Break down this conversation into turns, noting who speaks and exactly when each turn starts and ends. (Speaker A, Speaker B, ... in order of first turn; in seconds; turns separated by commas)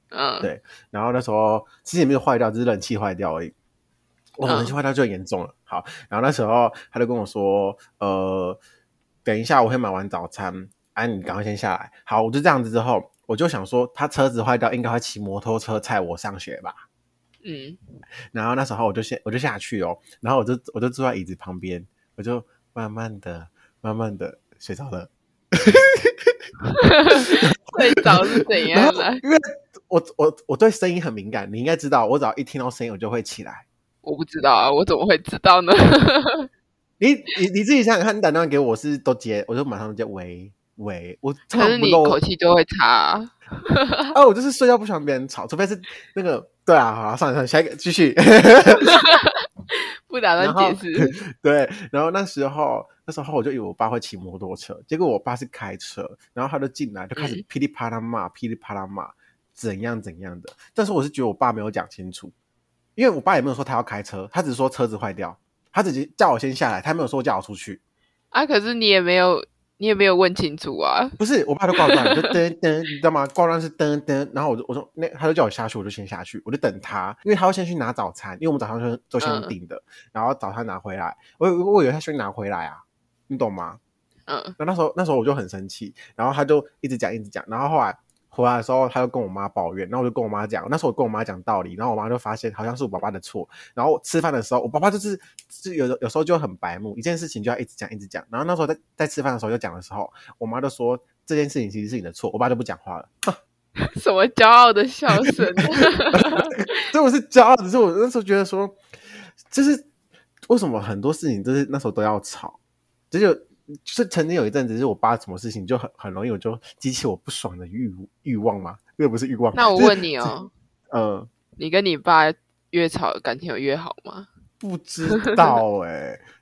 Speaker A: 0.1-0.5, Speaker B: 0.4-3.5, Speaker B: 4.4-8.6, Speaker A: 4.5-4.7, Speaker B: 9.2-16.8, Speaker A: 17.4-17.8, Speaker B: 18.3-26.3, Speaker A: 26.7-29.2, Speaker B: 27.1-33.6, Speaker A: 34.0-36.5, Speaker B: 37.0-42.2, Speaker A: 41.5-44.1, Speaker B: 44.1-49.0, Speaker A: 48.8-51.1, Speaker B: 50.4-62.3, Speaker A: 57.1-57.4, Speaker B: 63.0-67.8, Speaker A: 68.3-71.2, Speaker B: 71.2-83.8, Speaker A: 71.9-72.3, Speaker A: 79.2-79.5, Speaker A: 84.3-84.6, Speaker B: 84.6-103.4, Speaker A: 103.8-106.6, Speaker B: 105.2-108.8, Speaker B: 109.5-109.9, Speaker B: 110.5-112.6, Speaker B: 113.1-120.3, Speaker A: 119.5-120.5, Speaker B: 120.9-121.3, Speaker A: 121.6-124.3, Speaker B: 124.6-126.2, Speaker A: 125.2-125.6